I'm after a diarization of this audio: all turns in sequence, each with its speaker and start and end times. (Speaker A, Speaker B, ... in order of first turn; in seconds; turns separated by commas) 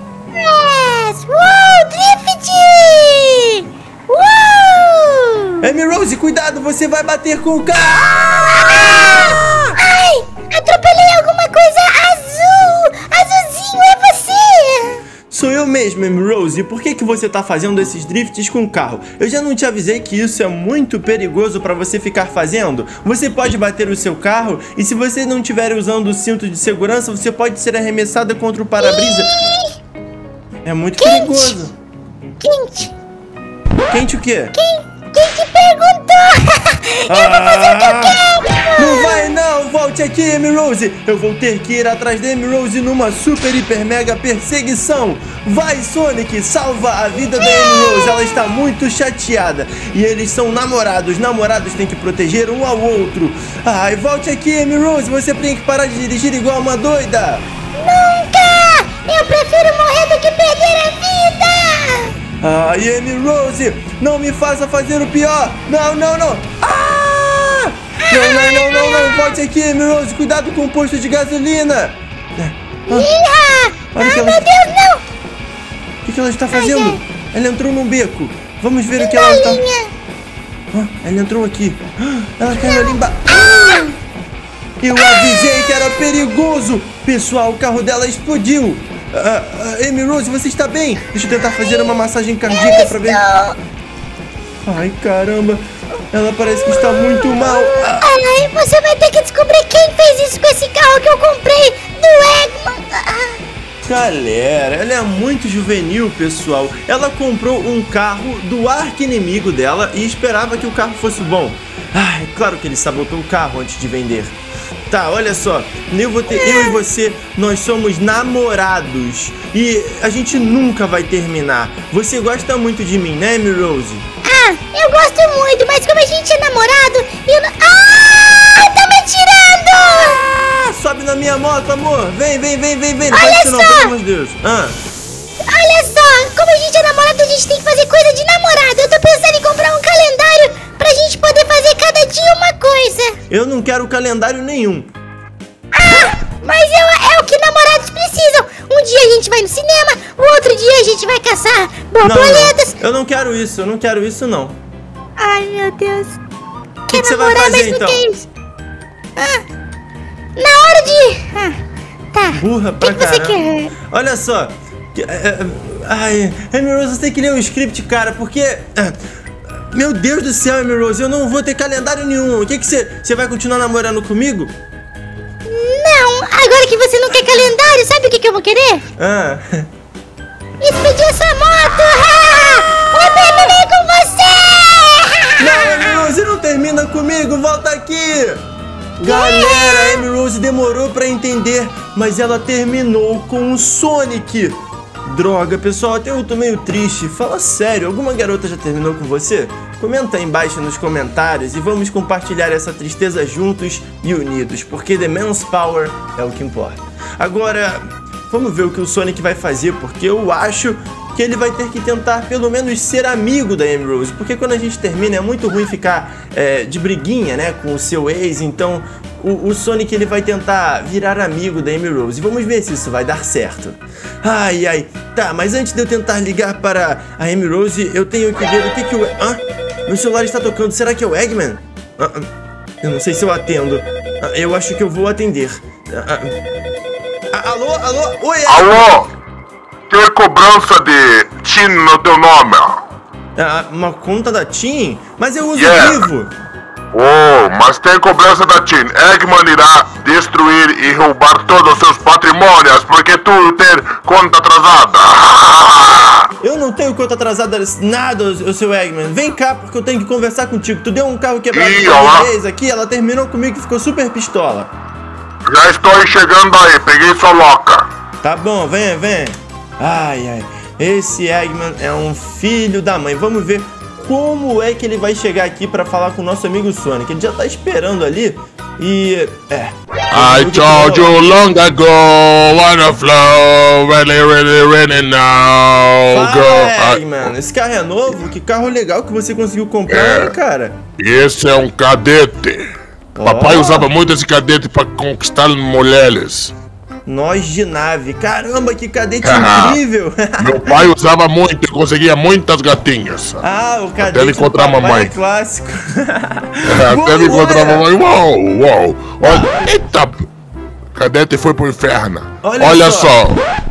Speaker A: 0.3-5.6, Speaker B: 5.6-9.6, Speaker A: 8.6-15.0, Speaker B: 15.3-29.3, Speaker A: 28.8-29.7, Speaker B: 30.6-31.7, Speaker A: 31.0-31.6, Speaker A: 32.4-32.9, Speaker B: 33.9-34.5, Speaker A: 34.5-39.3, Speaker B: 37.1-38.2, Speaker B: 38.8-57.4, Speaker A: 47.3-48.1, Speaker A: 57.8-62.1, Speaker B: 62.4-73.1, Speaker A: 68.1-69.3, Speaker A: 72.9-75.0, Speaker B: 73.9-74.5, Speaker B: 76.0-79.6, Speaker A: 76.5-77.0, Speaker A: 79.0-79.9, Speaker B: 80.7-83.9, Speaker A: 82.6-82.9, Speaker B: 84.8-93.2, Speaker A: 92.5-93.6, Speaker B: 94.7-98.1, Speaker A: 97.0-103.4, Speaker B: 103.8-114.3, Speaker B: 114.9-124.0, Speaker A: 116.3-116.7, Speaker A: 124.2-130.2, Speaker B: 130.1-134.8, Speaker A: 133.1-133.9, Speaker A: 135.5-143.2, Speaker B: 143.3-144.9, Speaker A: 145.7-152.8, Speaker B: 152.0-154.6, Speaker A: 155.2-156.2, Speaker B: 156.9-158.0, Speaker A: 156.9-158.2, Speaker A: 159.2-159.4, Speaker A: 160.4-161.6, Speaker A: 162.1-163.7, Speaker B: 162.3-169.0, Speaker B: 169.7-174.5, Speaker A: 175.5-178.8, Speaker B: 179.0-179.7, Speaker A: 180.6-186.1, Speaker B: 185.4-188.4, Speaker B: 189.0-232.3, Speaker A: 189.0-190.0, Speaker B: 232.8-236.3, Speaker B: 237.3-238.9, Speaker C: 238.5-239.1, Speaker C: 239.9-242.8, Speaker B: 243.3-246.3, Speaker C: 245.6-246.1, Speaker C: 246.9-256.3, Speaker B: 256.4-264.7, Speaker C: 261.5-262.3, Speaker C: 265.5-267.9, Speaker B: 268.2-281.2, Speaker C: 280.1-287.2, Speaker B: 286.1-290.8, Speaker C: 289.9-290.3, Speaker C: 291.0-292.7, Speaker B: 293.2-293.9, Speaker C: 293.2-296.5, Speaker B: 297.1-300.9, Speaker C: 299.2-299.8, Speaker C: 300.4-303.4, Speaker B: 303.4-307.9, Speaker C: 304.0-305.1, Speaker C: 306.7-310.2, Speaker B: 309.2-309.6, Speaker C: 310.9-313.4, Speaker B: 312.4-313.2